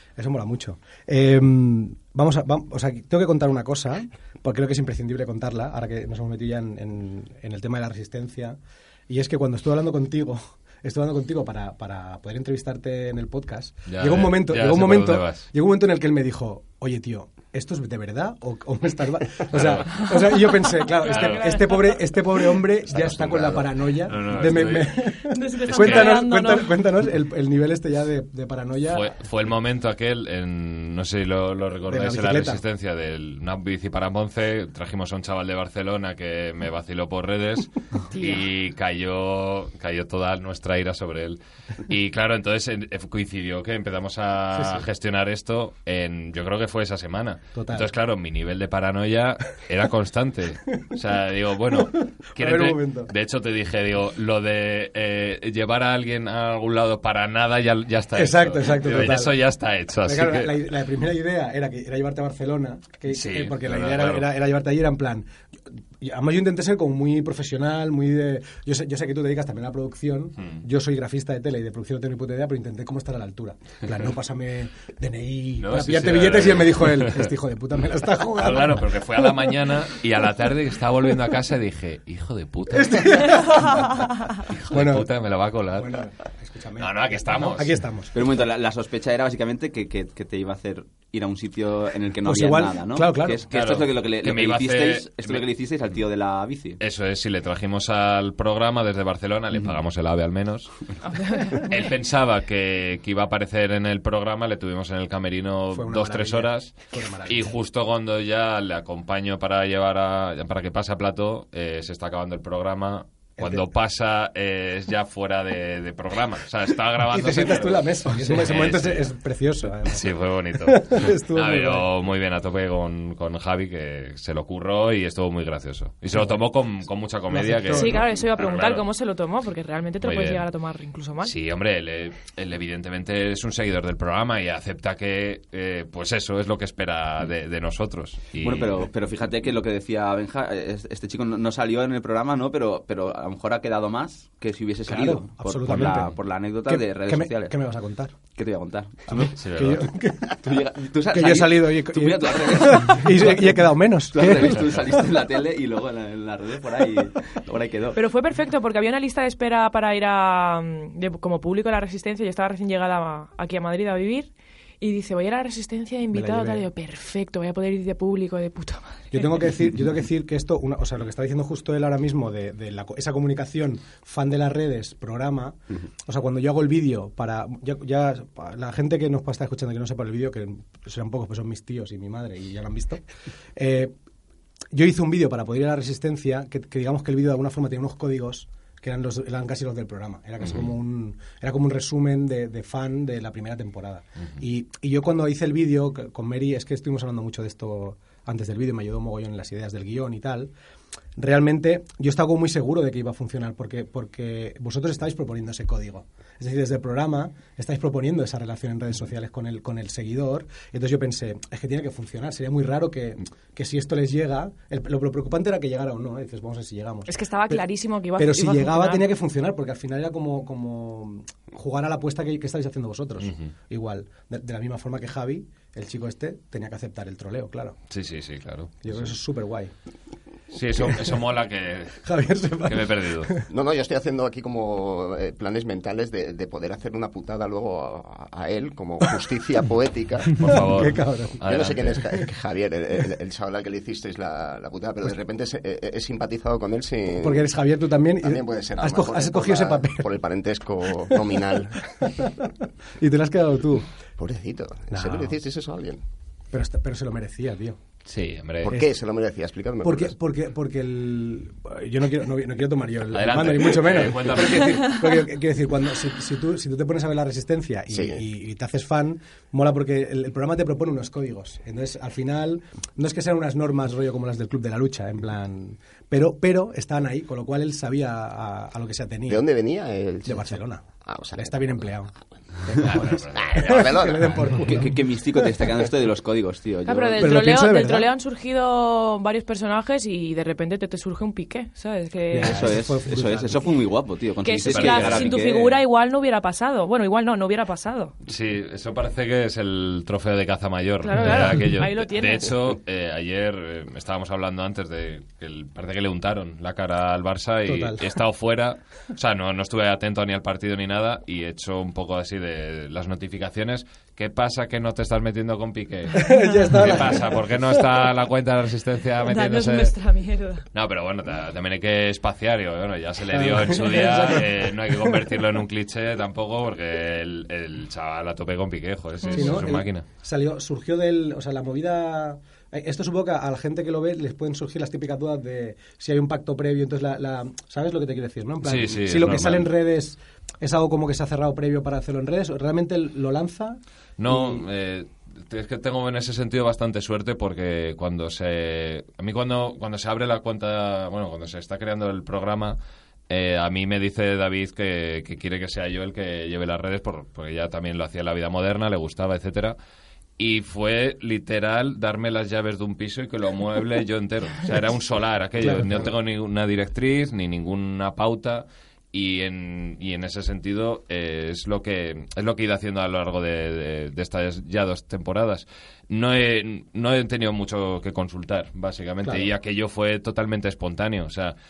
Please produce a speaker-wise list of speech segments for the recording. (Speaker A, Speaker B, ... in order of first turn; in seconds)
Speaker A: 0.2-8.6, 9.1-29.1, 31.9-32.6, 44.5-44.9, 47.5-47.9, 52.0-53.1, 58.1-59.4, 60.0-65.3, 66.0-78.9, 82.7-83.9, 84.7-85.1, 85.7-88.2, 92.2-93.4, 105.7-107.5, 113.4-113.7, 117.1-121.9, 126.1-126.4, 127.3-128.1, 144.9-146.1, 146.7-148.2, 149.1-150.5, 151.1-155.0, 166.1-166.7, 169.1-183.0, 183.6-183.9, 184.7-200.5, 201.2-217.7, 218.2-227.8, 228.8-229.7, 230.8-231.2, 232.0-233.5, 240.4-241.4, 247.2-250.1, 252.0-253.9, 254.9-255.3, 256.5-257.8, 259.8-279.4, 280.2-282.1, 282.6-285.4, 287.2-288.1, 292.3-293.6, 307.7-308.1, 316.1-317.9, 323.3-325.2, 329.3-344.6, 365.6-366.1, 379.2-379.5
Speaker B: 13.9-15.5, 19.5-20.1, 21.0-21.7, 23.1-24.9, 25.7-26.2, 28.9-60.5, 63.1-64.3, 75.6-77.3, 78.3-83.7, 84.4-86.0, 86.8-87.8, 93.5-95.5, 96.8-100.9, 101.5-119.1, 119.9-128.8, 130.0-130.5, 131.2-138.9, 145.7-146.0, 149.4-149.8, 223.2-223.5, 227.9-229.1, 230.5-232.0, 232.6-233.3, 240.4-242.1, 258.1-258.7, 263.1-265.0, 282.9-283.9, 294.6-295.3, 298.2-319.9, 320.7-330.1, 338.6-339.7, 344.2-352.8, 353.3-359.8, 360.4-381.6
Speaker C: 20.6-22.0, 25.3-26.7, 38.1-38.5, 101.0-101.9, 127.7-131.3, 157.9-169.4, 217.1-219.1, 286.9-292.7, 294.4-298.1, 301.0-302.5, 319.2-320.6, 329.2-329.6
Speaker D: 88.1-96.8, 138.4-147.6, 148.3-149.7, 150.3-158.0, 284.5-287.4, 292.3-295.8
Speaker E: 233.5-240.6, 241.4-247.5, 248.2-251.8, 254.2-256.0, 258.6-260.1, 267.9-268.2, 279.3-281.9, 282.9-284.4